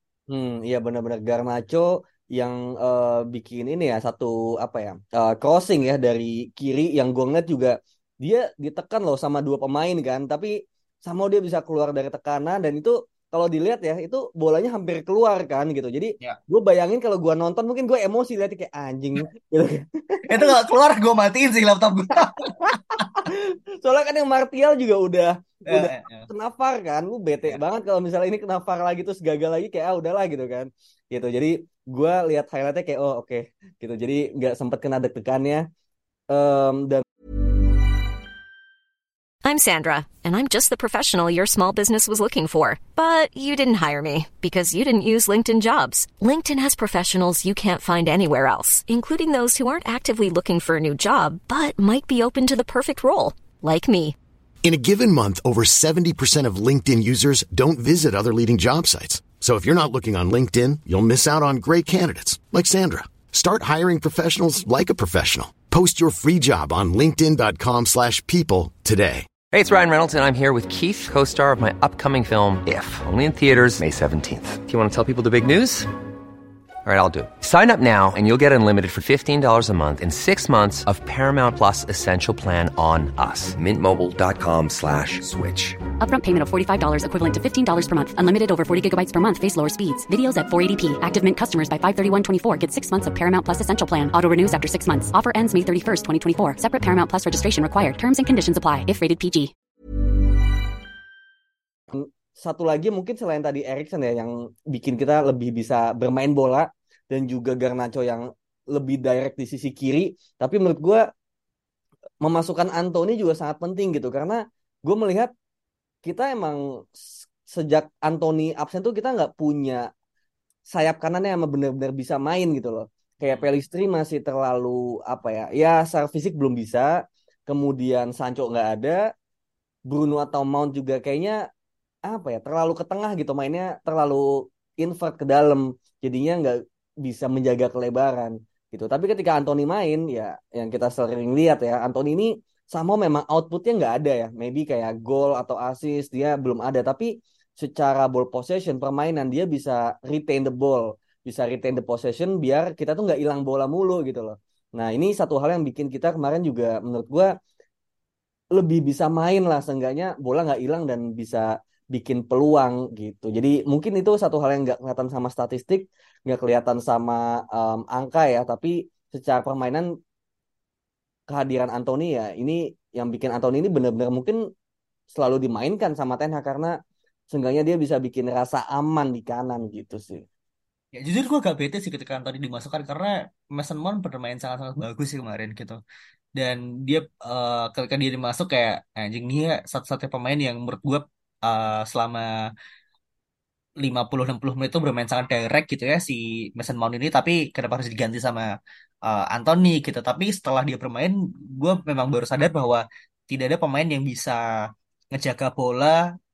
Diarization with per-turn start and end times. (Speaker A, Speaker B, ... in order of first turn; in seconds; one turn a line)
Speaker A: 0.3-10.5
Speaker A: 11.1-20.5
Speaker B: 20.3-22.5
Speaker A: 22.4-35.6
Speaker B: 25.7-26.3
Speaker A: 36.3-37.0
Speaker C: 39.5-54.2
Speaker D: 54.6-69.3
Speaker E: 69.5-75.9
Speaker E: 76.8-85.8
Speaker F: 86.0-99.5
Speaker A: 101.9-111.0
Speaker A: 112.2-115.3
Speaker A: 116.0-116.6
Speaker A: 117.2-119.8
Speaker A: 120.7-126.9
Speaker B: 123.3-123.5
Speaker A: 127.5-129.0
Speaker A: 129.9-131.4
Speaker A: 132.1-134.3
Speaker A: 134.8-157.3
Speaker A: 158.6-169.9
Speaker A: 171.3-174.4
Speaker A: 175.1-176.7
Speaker A: 177.3-180.2
Speaker B: 180.9-185.8
Speaker B: 186.4-192.3
Speaker B: 193.8-198.5
Speaker B: 199.1-204.4
Speaker B: 205.1-206.0